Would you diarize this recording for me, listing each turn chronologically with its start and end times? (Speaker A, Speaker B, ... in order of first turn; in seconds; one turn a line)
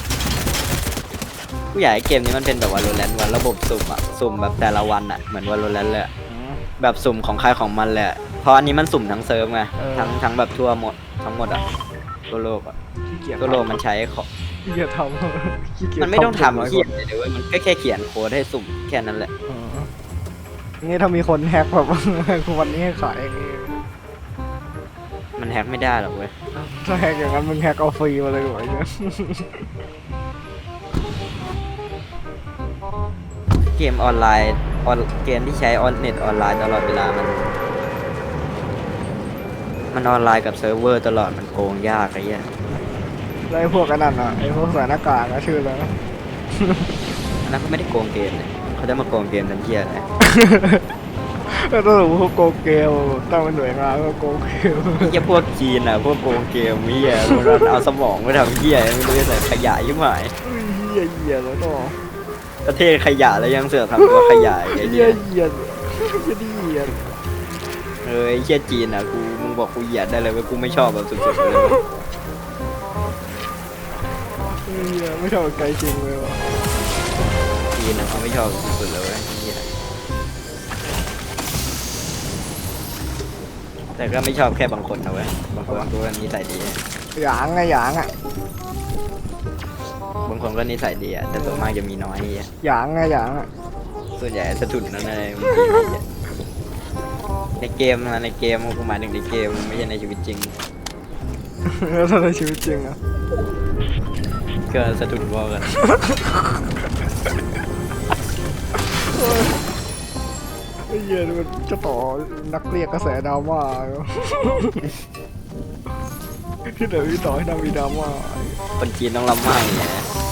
Speaker A: 1.7-6.1
Speaker B: 6.3-6.6
Speaker A: 6.8-11.6
Speaker B: 9.8-10.1
Speaker A: 12.3-12.7
Speaker B: 13.1-13.8
Speaker A: 13.4-14.3
Speaker B: 14.6-16.9
Speaker A: 16.0-19.3
Speaker B: 19.5-19.9
Speaker B: 20.8-23.7
Speaker A: 25.4-26.3
Speaker B: 26.5-29.7
Speaker A: 33.6-37.5
Speaker A: 39.9-42.5
Speaker B: 43.5-45.9
Speaker B: 46.5-46.9
Speaker A: 47.4-50.0
Speaker B: 50.2-50.8
Speaker B: 51.5-55.1
Speaker A: 55.0-60.3
Speaker B: 60.4-62.0
Speaker A: 62.6-65.2
Speaker B: 64.0-67.0
Speaker A: 68.0-71.8
Speaker B: 71.4-71.8
Speaker B: 74.7-76.4
Speaker A: 77.7-79.7
Speaker A: 84.0-86.8
Speaker B: 87.1-88.1
Speaker A: 90.2-92.5
Speaker B: 91.3-91.7
Speaker B: 92.6-93.5
Speaker A: 94.1-96.0
Speaker A: 97.6-100.5
Speaker B: 101.6-103.0
Speaker A: 104.7-105.7
Speaker B: 105.7-106.6
Speaker B: 108.8-109.6
Speaker B: 110.9-114.8
Speaker B: 116.7-118.6
Speaker A: 118.8-120.1